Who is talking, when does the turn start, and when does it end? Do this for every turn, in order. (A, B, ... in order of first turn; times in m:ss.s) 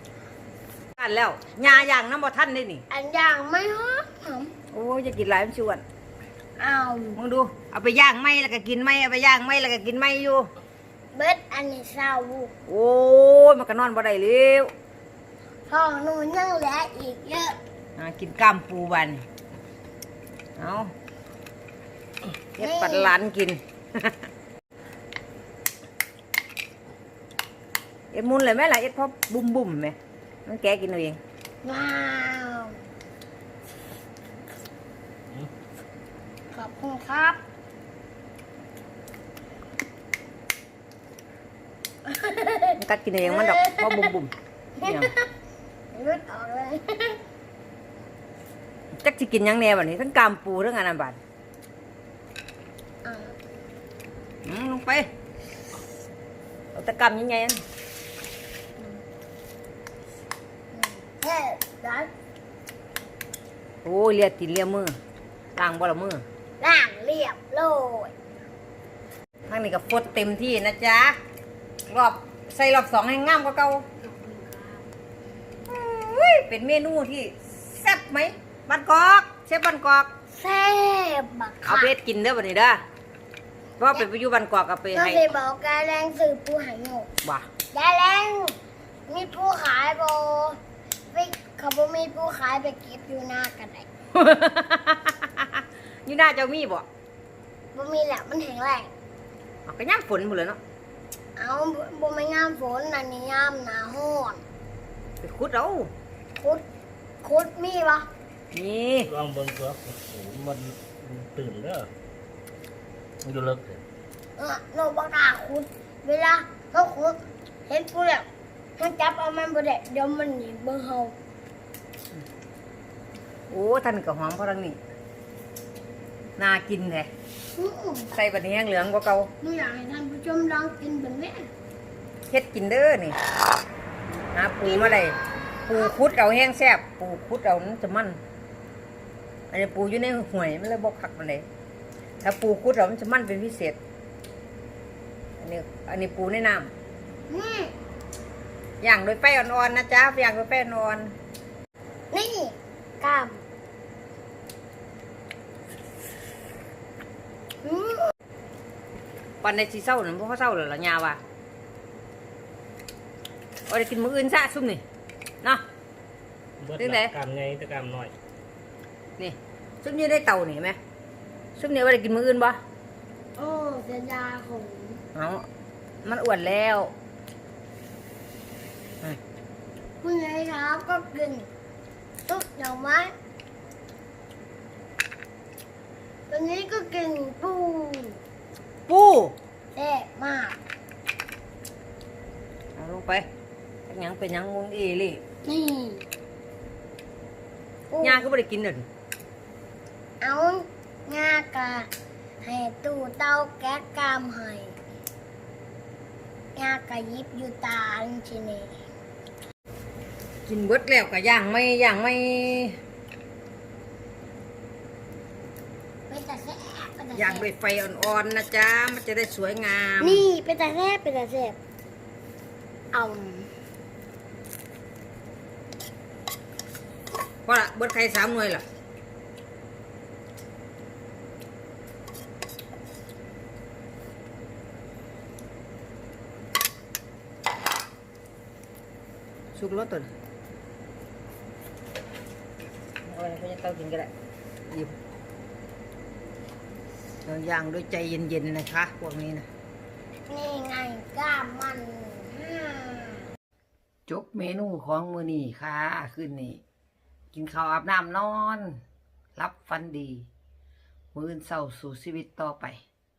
0:01.0-0:02.8 A
0:02.9-0:04.5 B
0:04.7-0:05.8 A
0:06.6-0:07.2 B
0:07.2-0:10.5 A
0:11.1-0:12.5 B
0:12.7-0:14.7 A
0:15.7-0:17.6 B
0:18.0-0:19.2 A
0:20.6-0:20.9 A
0:22.6-0:24.3 A
0:22.6-0:23.2 B
0:28.1-0:31.2 A
0:31.6-0:32.8 B
0:36.5-0:37.4 B
0:42.0-0:44.1 B
0:42.8-0:44.3 A
0:44.8-0:45.3 B
0:44.8-0:45.1 A
0:45.9-0:47.2 B
0:49.0-0:51.2 A
0:53.0-0:53.4 B
0:54.4-0:55.1 A
0:56.7-0:57.6 A
1:00.7-1:02.1 B
1:03.8-1:05.0 A
1:05.6-1:06.2 A
1:06.6-1:08.1 B
1:09.5-1:11.2 A
1:11.9-1:13.9 A
1:15.6-1:20.1 A
1:20.3-1:21.9 B
1:21.6-1:22.8 A
1:23.8-1:25.2 A
1:24.9-1:27.1 B
1:27.2-1:27.5 A
1:27.7-1:30.6 B
1:31.1-1:33.9 B
1:34.1-1:36.8 A
1:37.7-1:38.9 B
1:39.6-1:40.6 A
1:41.4-1:44.4 B
1:45.2-1:45.9 A
1:46.4-1:46.6 B
1:47.2-1:48.1 B
1:48.5-1:49.1 A
1:49.0-1:51.9 C
1:53.2-1:53.8 C
1:54.4-1:58.3 B
1:58.8-2:01.2 B
2:03.5-2:04.8 A
2:06.4-2:07.1 A
2:07.5-2:08.1 B
2:08.1-2:09.3 A
2:09.4-2:11.5 B
2:12.3-2:13.2 A
2:14.3-2:18.2 A
2:14.6-2:15.0 B
2:19.5-2:21.4 A
2:22.2-2:23.8 A
2:25.4-2:26.7 A
2:27.3-2:27.7 B
2:28.8-2:31.1 A
2:32.1-2:33.4 B
2:37.6-2:38.1 B
2:39.4-2:41.2 A
2:43.7-2:44.8 A
2:46.6-2:48.1 C
2:46.8-2:47.1 A
2:49.2-2:50.8 A
2:51.6-2:52.6 A
2:53.4-2:55.0 B
2:55.1-2:55.5 A
2:56.0-2:56.9 A
3:00.0-3:01.5 B
3:02.3-3:03.1 B
3:06.3-3:08.2 B
3:08.9-3:09.4 A
3:09.7-3:10.6 B
3:12.8-3:13.3 A
3:13.9-3:15.2 A
3:15.4-3:16.0 B
3:17.9-3:18.2 B
3:18.0-3:18.9 A
3:20.2-3:21.9 B
3:22.4-3:24.8 B
3:26.6-3:28.8 B
3:30.4-3:32.8 A
3:36.1-3:37.5 B
3:37.1-3:40.2 A
3:40.0-3:41.6 B
3:42.9-3:43.5 B
3:47.4-3:48.6 A
3:59.5-4:00.1 A
4:03.0-4:04.1 A
4:04.6-4:05.0 A
4:07.2-4:09.5 A
4:10.3-4:13.3 B
4:14.1-4:16.6 A
4:17.3-4:18.8 A
4:19.4-4:20.3 A
4:21.1-4:22.8 A